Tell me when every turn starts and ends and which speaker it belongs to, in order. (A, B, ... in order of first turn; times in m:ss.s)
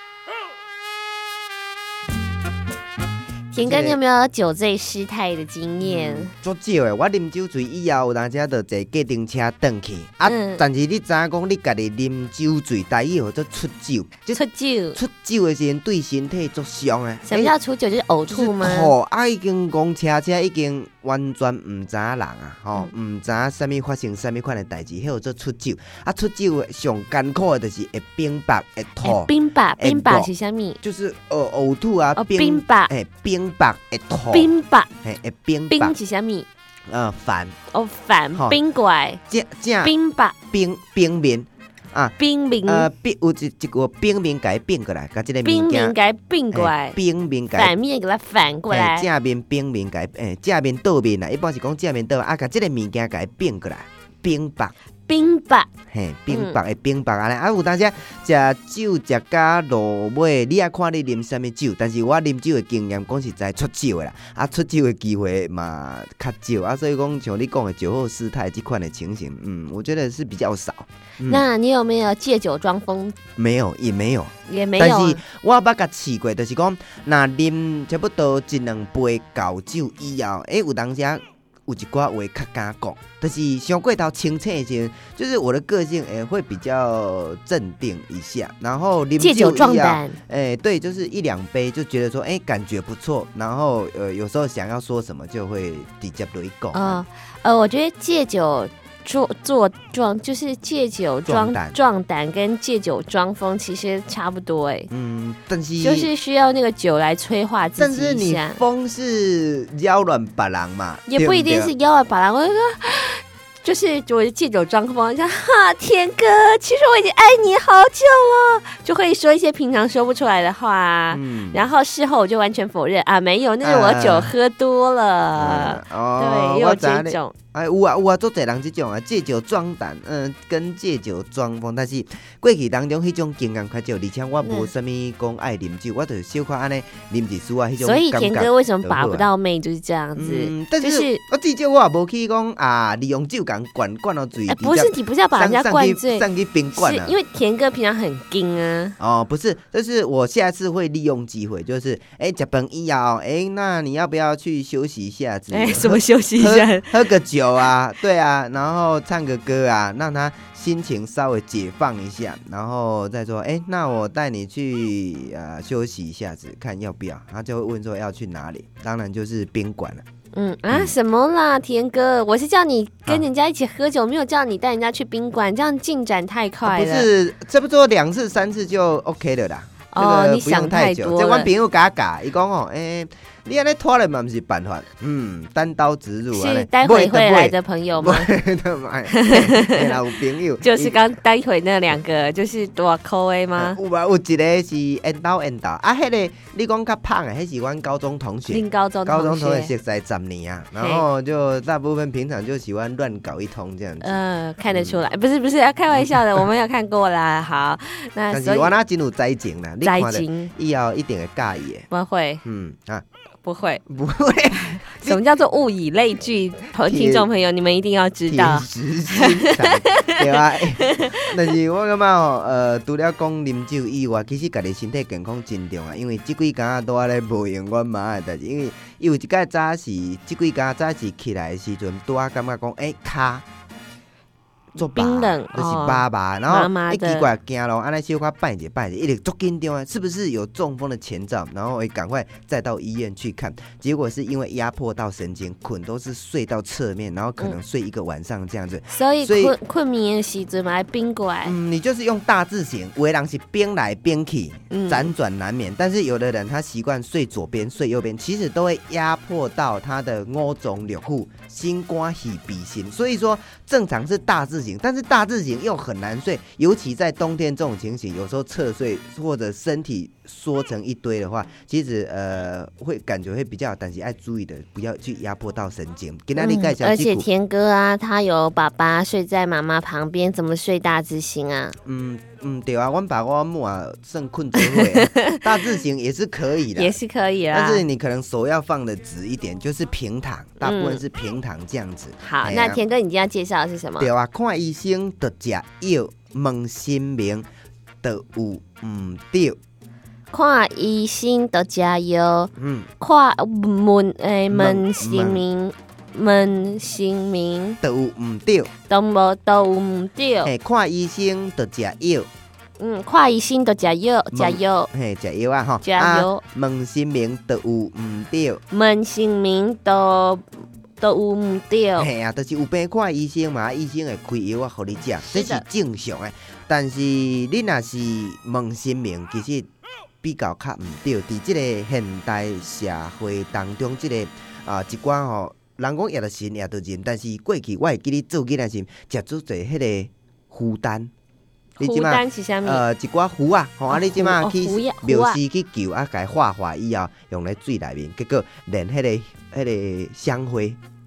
0:03.5-0:06.3 A
0:03.6-0:04.0 B
0:05.8-0:14.4 B
0:10.2-0:10.6 A
0:14.3-0:15.0 A
0:15.0-0:17.5 B
0:17.2-0:18.9 A
0:18.3-0:30.3 B
0:29.0-0:30.8 A
0:30.8-0:34.5 B
0:32.2-0:32.9 A
0:34.3-0:34.9 A
0:35.0-0:36.0 B
0:35.7-0:36.5 A
0:36.9-0:37.6 B
0:37.7-0:39.2 A
0:39.3-0:39.9 B
0:39.8-0:40.3 A
0:40.5-0:46.0 B
0:42.2-0:42.9 A
0:45.4-0:47.0 A
0:46.5-0:47.7 B
0:47.5-0:49.1 A
0:48.7-0:54.7 B
0:55.1-0:55.7 A
0:55.9-1:11.4 B
0:56.3-0:56.6 A
1:11.3-1:13.2 A
1:13.4-1:37.0 B
1:14.5-1:15.2 A
1:29.2-1:30.2 A
1:36.7-1:44.9 A
1:41.2-1:41.8 B
1:44.9-1:46.1 B
1:45.8-1:48.6 A
1:47.8-1:51.7 B
1:51.1-2:07.3 A
2:01.1-2:01.6 B
2:03.6-2:04.3 B
2:05.4-2:19.3 B
2:14.4-2:14.7 A
2:17.8-2:21.2 A
2:20.2-2:27.2 B
2:24.5-2:29.0 A
2:29.0-2:50.0 B
2:35.5-2:37.1 A
2:50.3-2:57.1 A
2:56.6-3:11.0 B
2:59.9-3:01.5 A
3:06.3-3:08.3 A
3:09.1-3:09.9 A
3:10.6-3:13.8 A
3:13.6-3:24.2 B
3:18.5-3:19.7 A
3:20.8-3:21.0 A
3:24.0-3:28.7 A
3:24.7-3:25.0 B
3:28.3-3:31.9 B
3:29.8-3:30.5 A
3:31.9-3:32.4 A
3:32.4-3:33.0 B
3:33.4-3:33.8 A
3:33.9-3:35.2 B
3:34.8-3:41.5 A
3:36.7-3:37.3 B
3:38.3-3:53.4 B
3:54.8-3:57.3 A
3:54.8-4:09.6 B
4:08.9-4:11.6 A
4:11.4-4:37.2 B
4:14.7-4:15.1 A
4:36.4-4:41.8 A
4:41.8-4:47.0 B
4:44.6-4:45.4 A
4:46.8-4:47.8 A
4:47.5-4:52.8 B
4:50.6-4:51.0 A
4:52.2-4:54.1 A
4:54.0-4:57.4 B
4:58.0-4:59.6 B
5:00.3-5:07.8 A
5:02.6-5:02.9 B
5:04.5-5:05.4 B
5:07.8-5:08.7 B
5:08.9-5:10.5 A
5:10.4-5:12.3 B
5:12.8-5:14.9 A
5:14.3-5:18.6 B
5:15.8-5:16.4 A
5:18.7-5:20.4 A
5:21.0-5:22.1 A
5:22.0-5:29.7 B
5:25.2-5:25.6 A
5:30.2-5:41.1 B
5:41.8-5:42.8 A
5:41.8-5:50.8 B
5:43.9-5:45.4 A